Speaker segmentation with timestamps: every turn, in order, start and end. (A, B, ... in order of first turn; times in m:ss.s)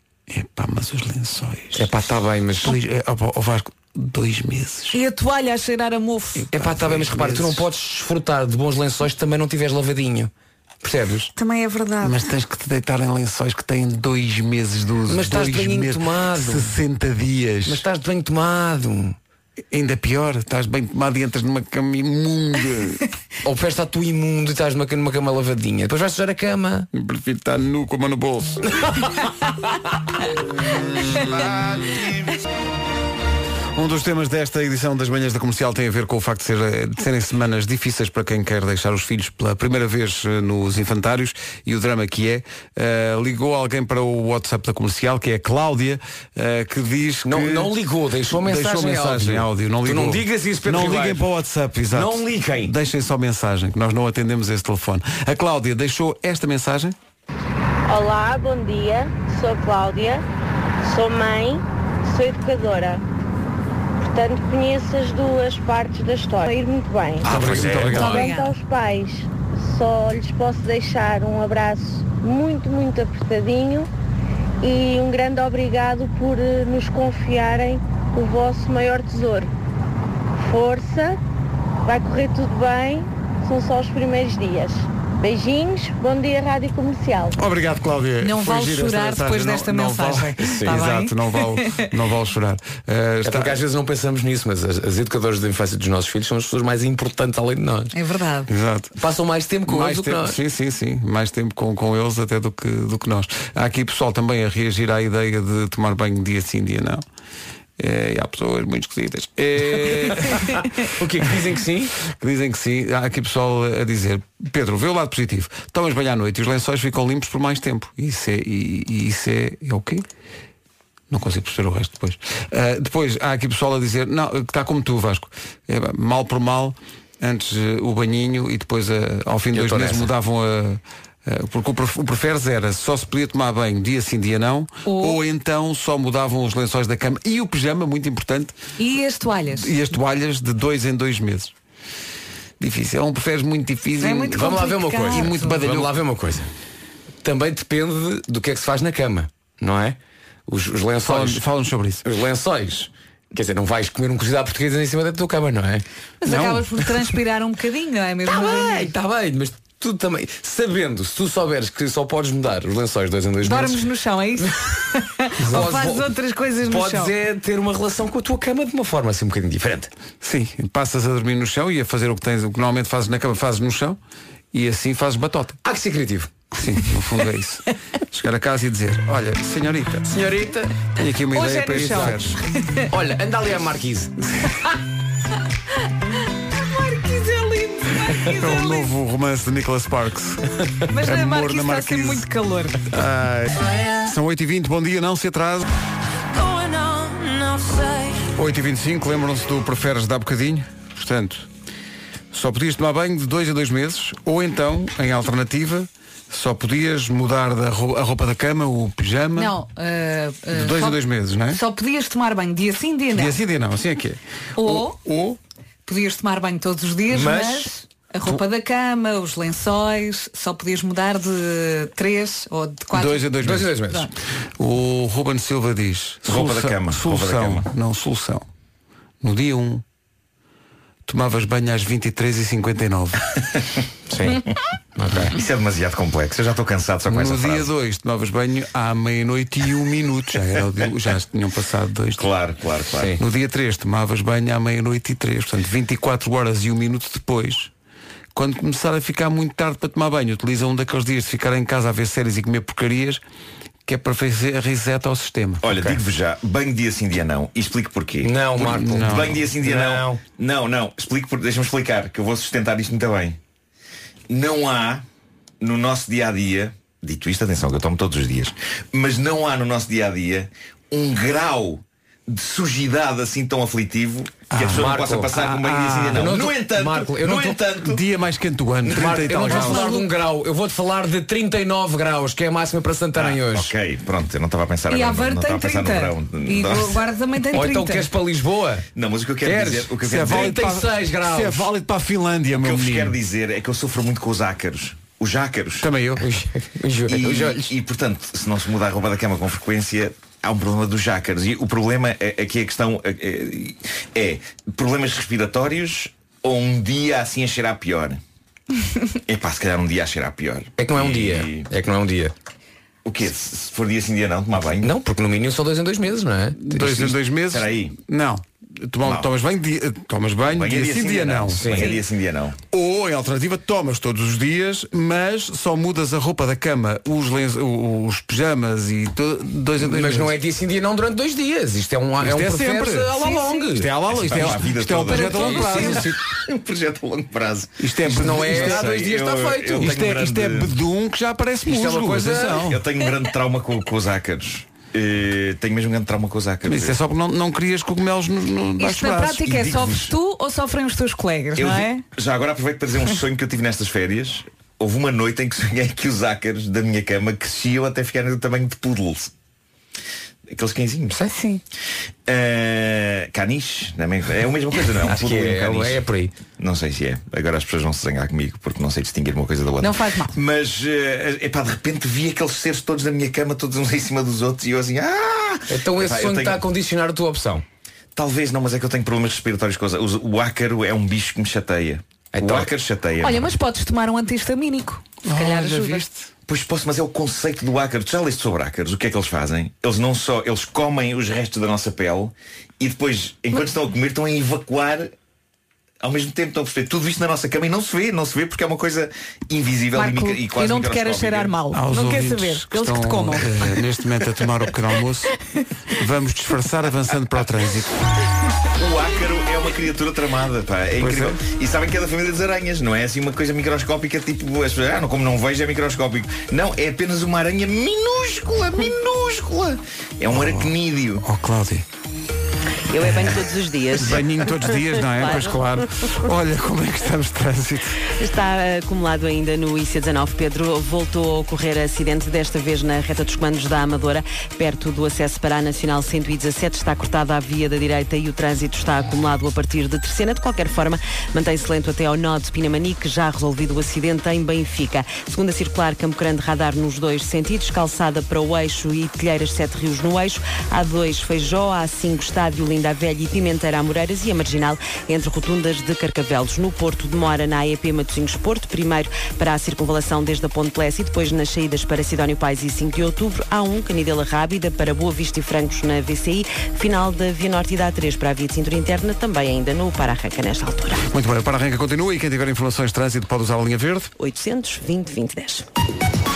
0:00.3-0:01.9 A
0:01.8-0:02.8 B
0:02.6-0:05.0 A
0:04.9-0:06.4 C
0:06.4-0:07.7 A
0:06.5-0:10.3 B
0:10.8-0:11.3 B
0:11.4-0:12.2 C
0:12.0-0:17.8 A
0:15.1-0:16.8 B
0:17.7-0:19.2 B
0:19.7-0:23.0 A
0:23.4-0:26.9 B
0:26.9-0:29.0 A
0:30.4-0:32.3 A
0:33.8-0:47.7 A
0:47.2-0:51.3 B
0:48.3-0:57.0 A
0:51.9-0:52.7 B
0:57.9-1:00.2 D
1:00.8-1:03.0 D
1:04.0-1:13.9 D
1:07.2-1:08.1 E
1:07.2-1:08.3 A
1:07.4-1:07.8 B
1:07.9-1:08.6 C
1:14.6-1:19.5 D
1:20.4-1:21.2 D
1:21.8-1:27.4 D
1:27.4-1:33.6 A
1:28.2-1:31.8 C
1:30.4-1:30.8 B
1:33.2-1:37.9 B
1:37.9-1:38.5 C
1:38.5-1:38.9 A
1:39.0-1:40.4 B
1:39.7-1:47.0 A
1:47.8-1:50.9 A
1:49.6-1:51.9 B
1:52.0-2:00.1 A
2:01.1-2:18.6 A
2:09.5-2:10.1 B
2:14.8-2:15.2 C
2:18.8-2:19.7 C
2:19.5-2:21.5 A
2:22.6-2:24.5 A
2:24.0-2:25.6 C
2:24.3-2:26.5 B
2:25.1-2:25.9 A
2:27.2-2:30.0 B
2:30.5-2:31.4 B
2:31.0-2:32.0 A
2:32.0-2:35.8 B
2:36.2-2:38.9 C
2:36.2-2:36.9 A
2:38.3-2:43.8 B
2:43.4-2:47.1 C
2:45.4-2:45.7 A
2:45.5-2:46.1 B
2:46.6-2:49.9 B
2:50.2-2:54.0 A
2:54.5-2:55.6 A
2:55.6-2:56.3 B
2:56.5-3:00.1 A
3:00.1-3:00.8 B
3:01.0-3:02.4 A
3:01.3-3:02.9 C
3:01.8-3:02.2 B
3:02.9-3:04.2 B
3:06.5-3:08.9 C
3:08.4-3:10.4 A
3:10.9-3:12.9 C
3:11.0-3:12.3 A
3:12.9-3:15.7 A
3:16.5-3:17.8 C
3:18.4-3:21.5 A
3:22.3-3:29.6 A
3:29.4-3:33.4 C
3:30.5-3:31.6 A
3:33.1-3:35.4 A
3:34.6-3:35.0 C
3:35.9-3:44.1 C
3:37.1-3:37.7 B
3:42.9-3:43.8 A
3:43.4-3:44.1 B
3:44.6-3:48.4 A
3:46.3-3:47.7 E
3:49.2-3:49.8 A
3:51.1-3:53.3 A
3:54.1-3:54.4 B
3:55.0-3:55.4 B
3:55.3-3:57.7 E
3:57.1-4:02.2 A
4:02.2-4:03.2 E
4:03.2-4:07.7 A
4:08.3-4:13.2 A
4:13.9-4:15.6 A
4:15.6-4:23.4 E
4:15.7-4:16.0 B
4:18.2-4:20.2 B
4:18.6-4:19.4 A
4:24.3-4:25.0 E
4:25.6-4:38.0 E
4:34.5-4:36.3 A
4:34.6-4:37.6 B
4:37.8-4:39.9 A
4:38.8-4:43.7 B
4:39.3-4:40.1 C
4:43.2-4:47.0 E
4:44.9-4:48.1 C
4:47.5-4:48.9 B
4:49.0-4:50.6 E
4:49.4-4:51.7 B
4:50.0-4:53.2 A
4:52.5-4:55.9 E
4:55.8-4:56.2 A
4:56.2-4:57.7 B
4:57.1-5:08.2 E
5:09.3-5:11.7 E
5:10.8-5:12.3 B
5:13.0-5:14.9 E
5:14.8-5:17.0 B
5:16.6-5:22.0 A
5:16.9-5:18.0 E
5:19.0-5:19.3 E
5:20.5-5:22.6 E
5:21.5-5:22.0 B
5:22.7-5:30.3 A
5:29.8-5:34.5 B
5:32.2-5:33.1 A
5:33.2-5:33.7 C
5:33.8-5:36.2 A
5:34.1-5:40.7 E
5:35.0-5:36.1 C
5:35.3-5:36.1 B
5:37.8-5:39.0 A
5:38.0-5:40.0 B
5:39.8-5:42.8 A
5:41.6-5:42.7 B
5:42.5-5:47.0 E
5:46.7-5:49.5 A
5:48.8-5:52.0 C
5:49.4-5:50.1 E
5:51.6-5:59.3 E
6:00.5-6:01.2 E
6:01.2-6:01.6 C
6:02.3-6:06.0 E
6:05.0-6:06.3 B
6:06.6-6:16.6 E
6:09.8-6:10.4 C
6:15.7-6:17.6 B
6:18.2-6:23.5 E
6:22.3-6:22.7 B
6:23.2-6:26.0 C
6:25.2-6:26.3 A
6:26.5-6:35.1 E
6:36.0-6:41.6 E
6:39.9-6:43.5 C
6:41.7-6:45.3 A
6:45.9-6:47.9 A
6:48.8-7:01.2 E
6:51.0-6:51.4 A
7:00.3-7:01.8 A
7:02.9-7:05.6 F
7:03.9-7:08.0 A
7:08.1-7:51.1 F
7:51.1-7:54.1 A
7:54.2-7:55.7 F